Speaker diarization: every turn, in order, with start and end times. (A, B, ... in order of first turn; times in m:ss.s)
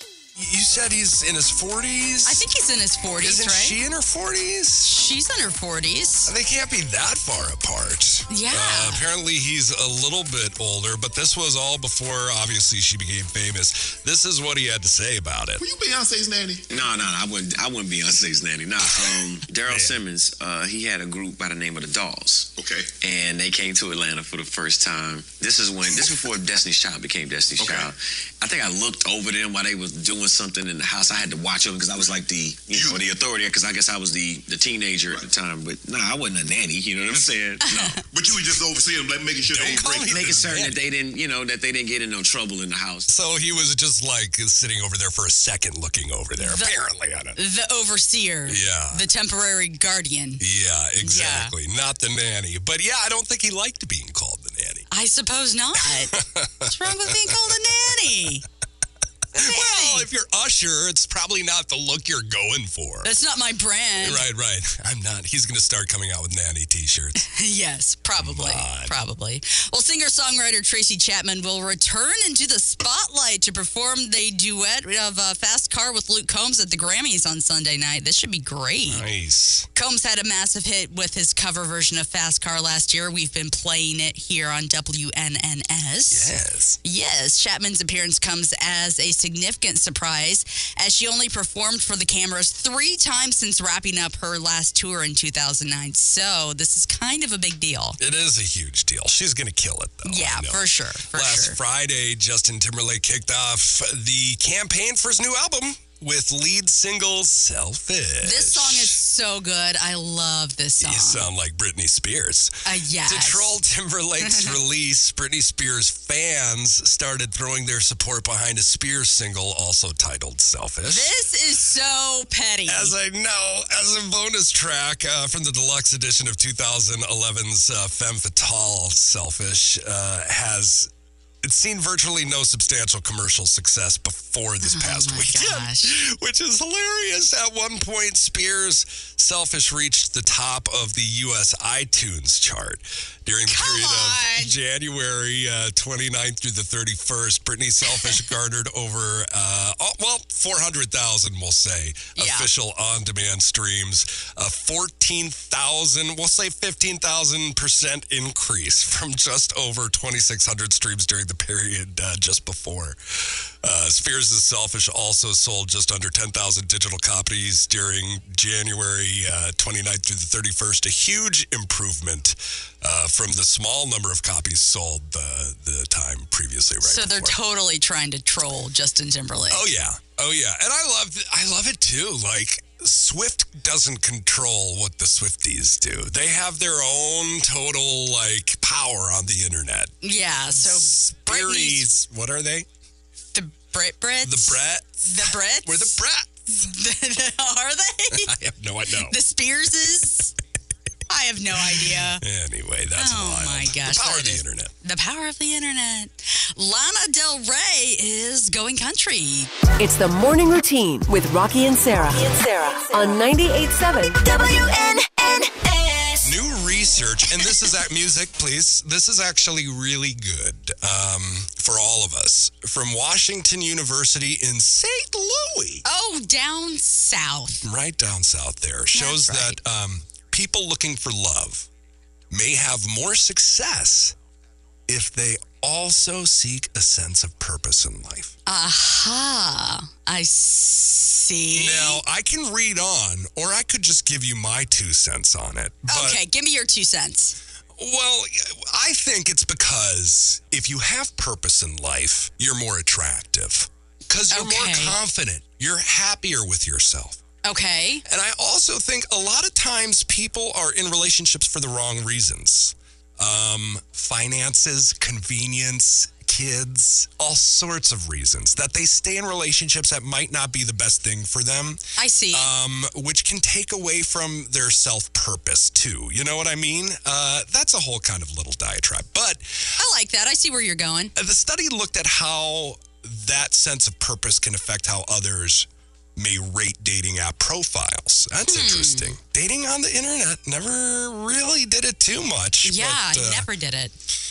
0:00.3-0:02.5 A
0:02.2-0:03.8 B
0:03.2-0:04.9 A
0:04.8-0:06.3 B
0:06.2-0:15.6 A
0:08.3-0:09.0 B
0:15.6-0:16.6 C
0:16.7-0:38.0 D
0:19.7-0:20.0 A
0:22.6-0:22.9 C
0:27.6-0:27.9 C
0:32.7-0:33.0 C
0:37.6-0:38.0 B
0:38.0-0:40.7 C
0:39.5-0:40.8 A
0:40.1-0:43.1 D
0:43.1-0:47.4 A
0:46.4-0:46.7 B
0:47.4-0:50.4 B
0:48.4-0:49.1 A
0:50.4-0:54.9 A
0:51.0-0:51.5 B
0:54.9-0:58.4 B
0:55.8-0:58.1 A
0:59.3-1:03.1 A
0:59.3-1:00.1 B
1:03.0-1:04.2 B
1:04.0-1:07.3 A
1:07.2-1:19.0 B
1:08.2-1:09.0 A
1:18.8-1:19.7 A
1:19.7-1:26.3 B
1:26.1-1:26.8 A
1:26.8-1:38.0 B
1:38.0-1:49.0 A
1:40.0-1:41.6 B
1:48.2-1:51.3 B
1:50.8-2:01.1 A
1:52.6-1:53.6 B
1:54.2-1:54.6 B
2:00.8-2:02.9 B
2:02.7-2:57.4 A
2:14.6-2:16.0 B
2:23.5-2:24.5 B
2:27.8-2:28.2 B
2:32.2-2:32.5 B
2:56.8-2:59.7 B
2:59.5-3:09.9 A
3:10.0-3:11.9 B
3:10.5-3:12.7 A
3:13.3-3:18.3 B
3:14.2-3:16.4 A
3:18.1-3:19.2 A
3:19.0-3:20.3 B
3:21.1-3:22.2 B
3:21.6-3:24.7 A
3:23.0-3:29.5 B
3:29.8-3:36.2 E
3:36.2-3:45.8 A
3:45.8-3:47.6 B
3:47.6-3:51.7 A
3:48.9-3:49.6 B
3:52.3-3:54.2 A
3:54.9-3:58.3 A
3:58.4-4:02.0 B
4:01.5-4:06.2 A
4:05.9-4:07.4 B
4:07.8-4:17.2 A
4:14.3-4:15.0 B
4:17.4-4:18.0 B
4:18.0-4:39.7 A
4:32.0-4:32.5 B
4:39.8-4:41.1 B
4:41.1-4:53.5 A
4:48.4-4:49.2 B
4:52.6-4:53.9 B